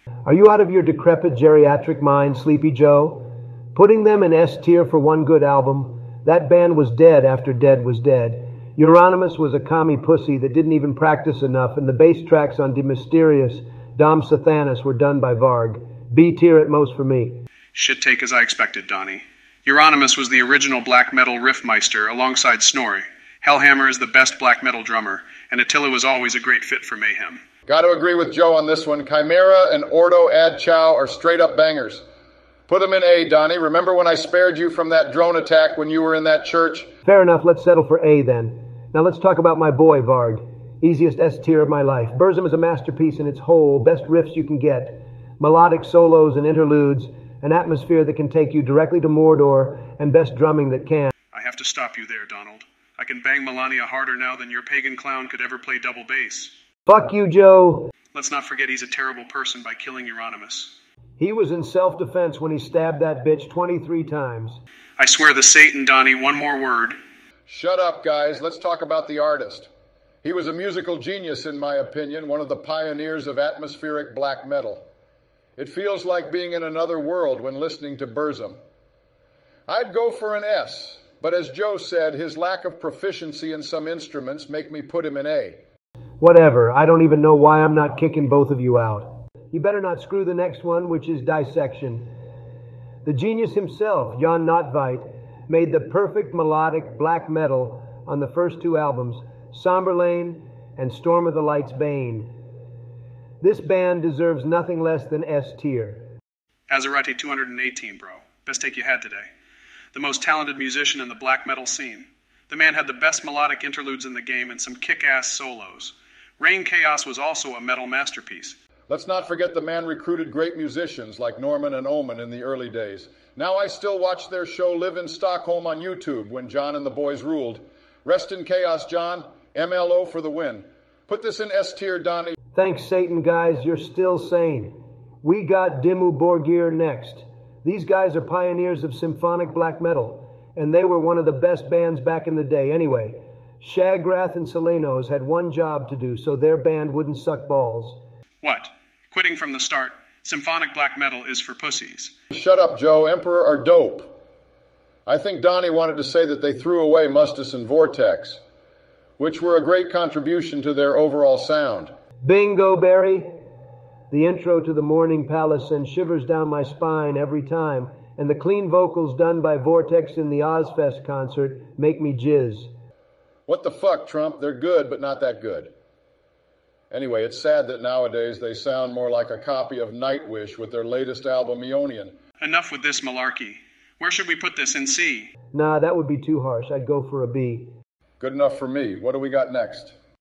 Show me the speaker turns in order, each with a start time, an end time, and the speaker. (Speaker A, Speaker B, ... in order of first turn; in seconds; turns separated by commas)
Speaker A: 0.2-17.4, Speaker B: 17.7-27.4, Speaker C: 27.7-32.0, Speaker C: 32.7-36.9, Speaker A: 37.0-51.1, Speaker B: 51.3-56.5, Speaker A: 56.9-57.9, Speaker B: 58.1-60.7, Speaker A: 61.2-64.6, Speaker B: 65.0-67.0, Speaker C: 67.5-69.7, Speaker C: 70.2-74.9, Speaker C: 75.6-78.6, Speaker C: 79.7-85.6, Speaker A: 86.2-92.1, Speaker A: 93.0-102.3, Speaker A: 103.4-106.0, Speaker B: 106.7-109.3, Speaker B: 109.9-118.6, Speaker C: 118.9-132.4, Speaker A: 132.6-148.0, Speaker B: 148.4-152.1, Speaker C: 152.3-154.1, Speaker C: 155.1-158.4, Speaker C: 159.2-161.9, Speaker A: 162.2-163.3, Speaker A: 164.1-172.7, Speaker C: 173.5-175.7, Speaker C: 176.9-182.1, Speaker B: 182.4-185.3, Speaker A: 185.5-187.7, Speaker C: 188.2-189.9